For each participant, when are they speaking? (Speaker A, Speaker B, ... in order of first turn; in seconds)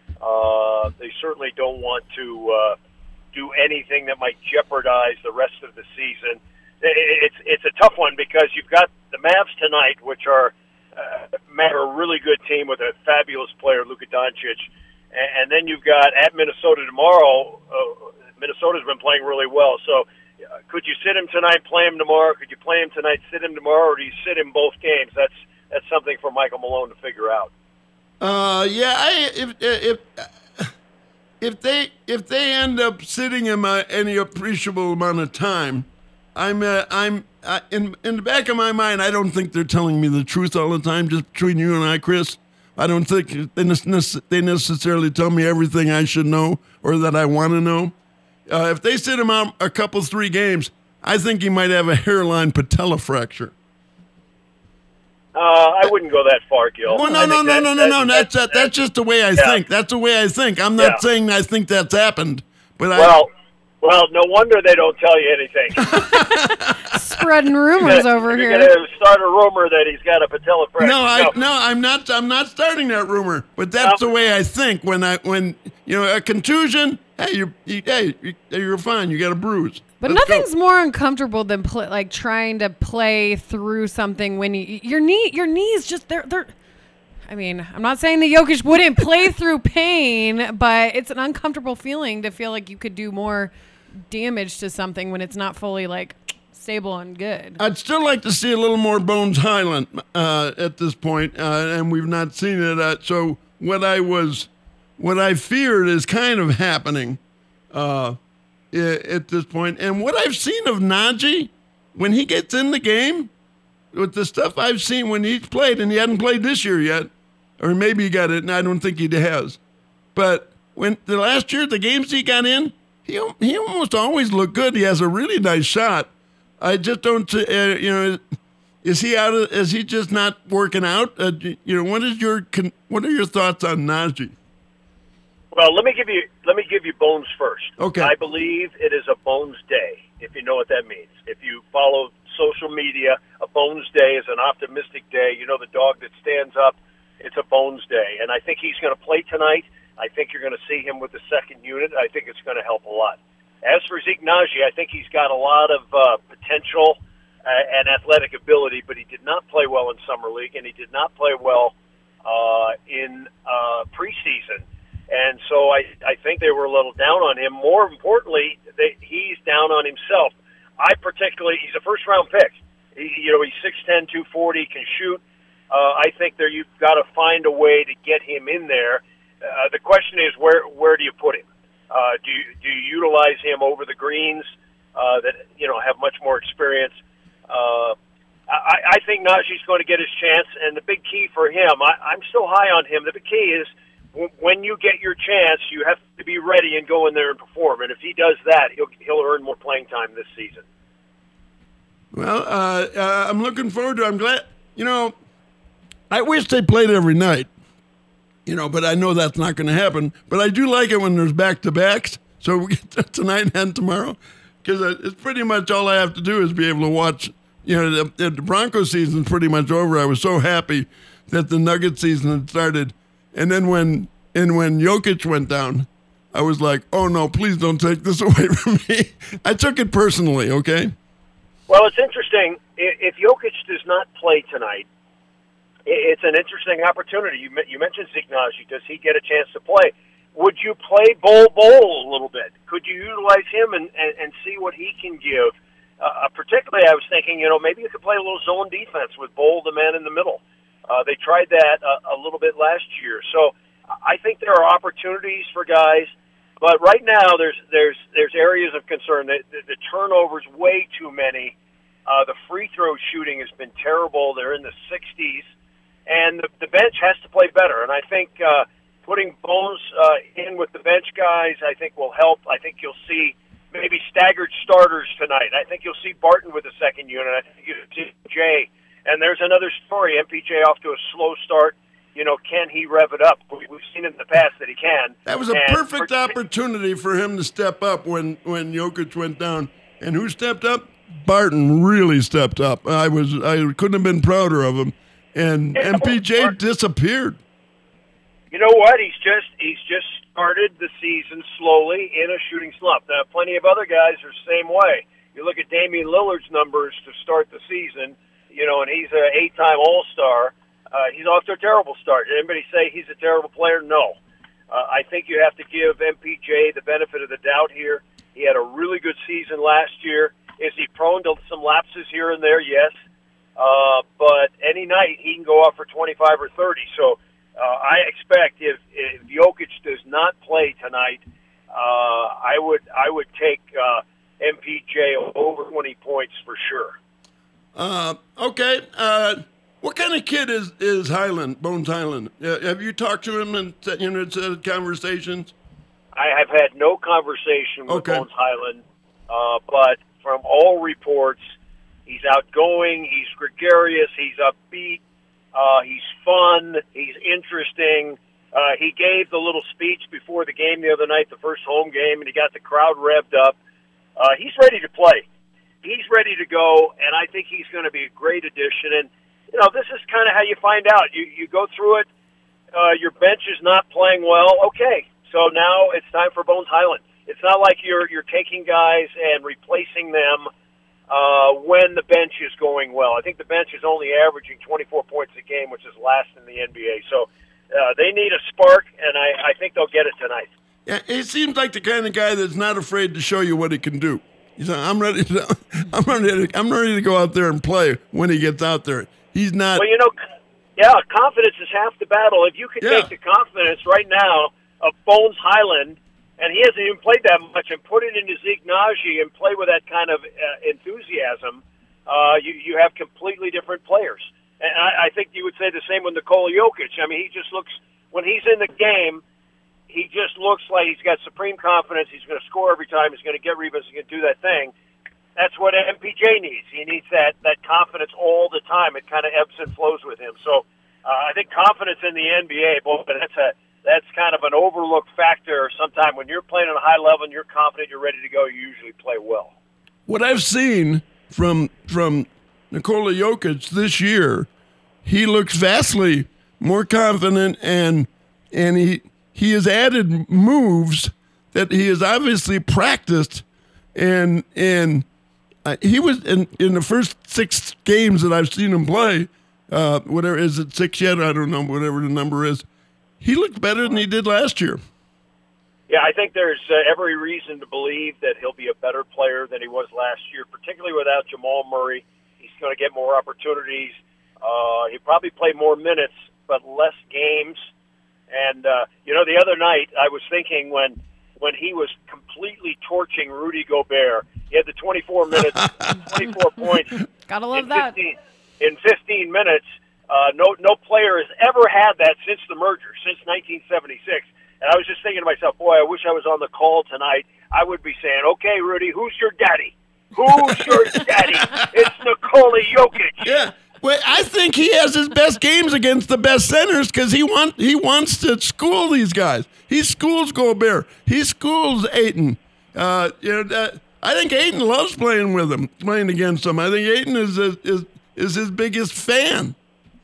Speaker A: 0.2-2.8, 3.3-20.1, 20.7-27.5, 55.3-58.7, 62.9-63.3, 63.8-65.9, 67.8-71.3, 135.5-186.9, 187.5-187.9, 188.5-200.6, 231.7-234.8, 235.8-261.5, 262.1-265.5, 266.1-286.3, 295.7-296.5, 298.5-314.2, 314.7-323.0, 323.6-336.9, 346.1-351.4, 352.1-355.0, 355.5-363.6, 364.2-365.2, 365.8-372.1, 372.7-380.5, 381.1-390.5, 399.8-400.1, 400.8-419.2, 419.9-424.7, 425.4-439.5, 465.9-477.6, 478.3-487.0, 487.5-503.3
Speaker B: 28.2-30.7, 31.4-47.9, 48.5-53.5, 56.9-63.1, 65.8-67.2, 70.8-80.5, 97.6-107.2, 107.7-108.2, 108.7-113.3, 113.9-119.6, 120.1-126.1, 126.6-128.2, 128.8-134.3, 137.8-138.1, 202.1-205.1, 206.1-207.5, 208.4-230.9, 285.2-297.4, 337.7-345.5, 347.9-348.2, 390.9-399.8, 402.8-403.1, 440.1-444.5, 445.0-453.4, 453.9-455.1, 455.6-462.6, 463.2-464.8, 485.6-485.9, 500.5-501.7, 503.2-519.5
Speaker C: 56.9-57.3, 66.2-68.7, 80.0-86.5, 87.3-97.6, 487.3-487.9